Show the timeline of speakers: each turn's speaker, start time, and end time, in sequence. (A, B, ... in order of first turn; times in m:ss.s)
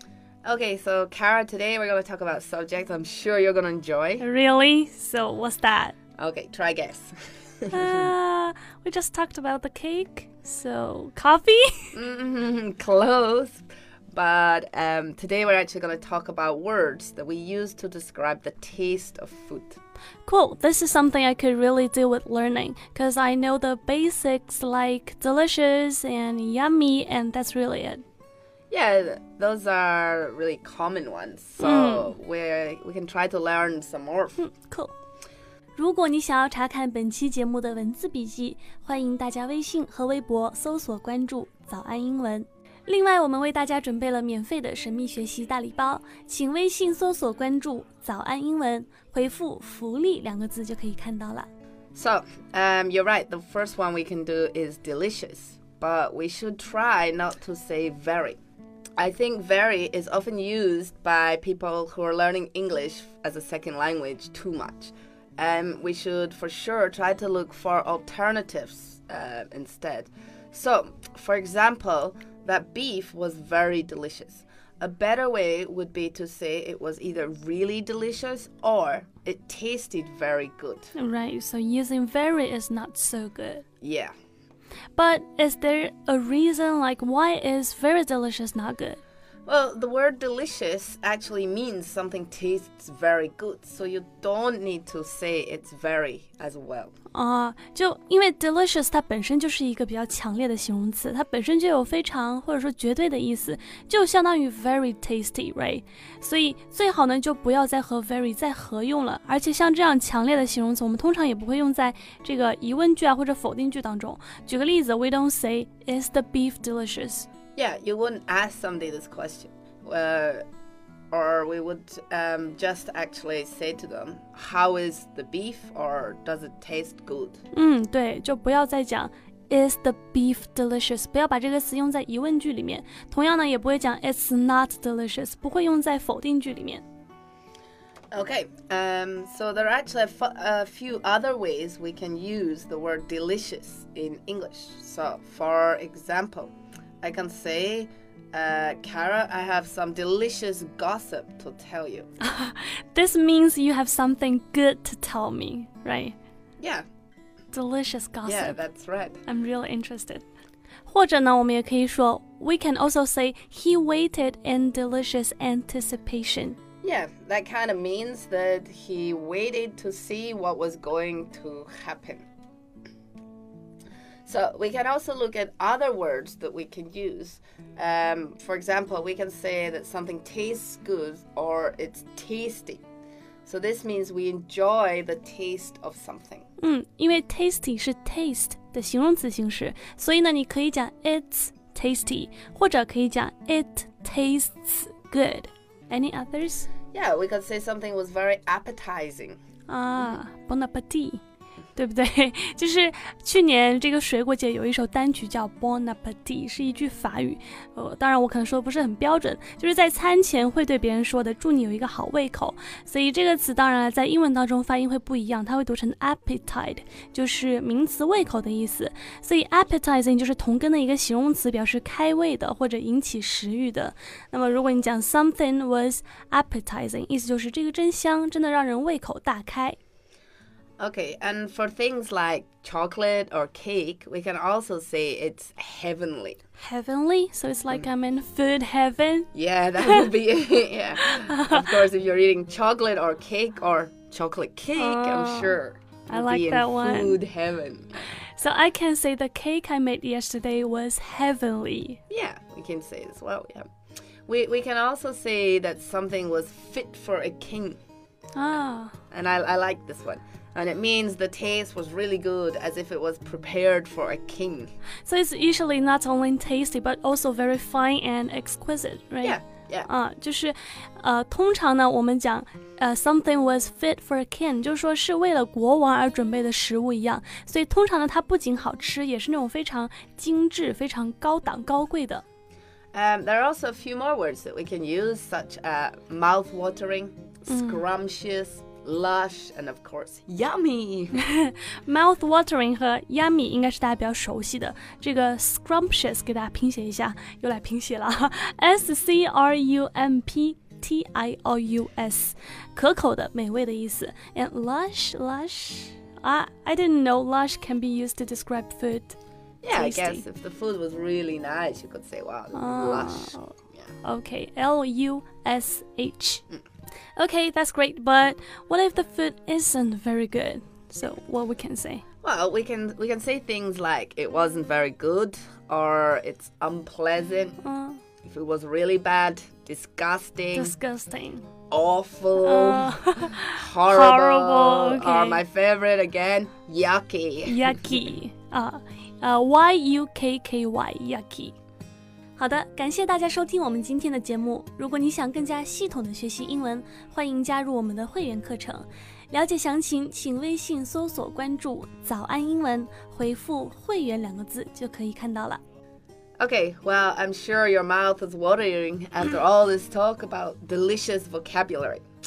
0:00.4-0:04.2 A
0:04.2-0:06.0 B
0:06.2-0:08.1 A
0:07.7-0:12.0 B
0:11.9-0:19.8 A
0:20.2-0:28.0 B
0:28.7-0:34.4 A
0:31.6-0:32.1 B
0:34.4-0:34.9 B
0:35.8-0:51.5 B
0:51.9-0:58.4 A
0:59.0-1:20.9 A
1:21.0-1:23.6 B
1:23.8-1:24.1 A
1:25.0-1:29.0 B
1:29.4-1:36.9 A
1:37.1-1:57.3 B
1:57.5-2:00.4 A
2:01.1-2:07.4 A
2:07.5-2:16.8 B
2:18.1-2:32.1 A
2:32.2-2:36.2 B
2:36.6-2:36.8 A
2:37.5-2:38.6 B
2:38.2-2:39.2 A
2:39.3-2:40.2 B
2:40.9-2:46.6 B
2:46.8-2:52.2 A
2:54.2-3:02.8 A
3:03.4-3:06.4 A
3:06.6-3:16.7 B
3:16.9-3:19.4 A
3:19.7-3:21.2 B
3:21.8-3:49.8 B
3:50.8-3:56.4 A
3:56.6-4:00.1 B
3:59.3-4:08.1 A
4:01.0-4:01.8 B
4:04.7-4:07.2 B
4:08.3-4:12.0 B
4:12.1-4:13.7 A
4:14.2-4:17.8 A
4:18.3-4:19.0 B
4:19.1-4:24.7 A
4:25.0-4:42.2 B
4:29.2-4:29.9 A
4:42.9-4:51.2 A
4:47.5-4:47.8 B
4:51.2-5:09.2 B
5:09.6-5:13.9 A
5:09.7-5:10.2 B
5:12.5-5:16.4 B
5:17.2-5:22.0 B
5:22.2-5:27.6 A
5:27.6-5:28.0 B
5:28.2-5:30.8 A
5:30.5-5:31.4 B
5:31.7-5:38.0 A
5:32.4-5:35.4 B
5:37.4-5:41.5 B
5:42.4-5:55.6 B
5:56.4-6:02.0 A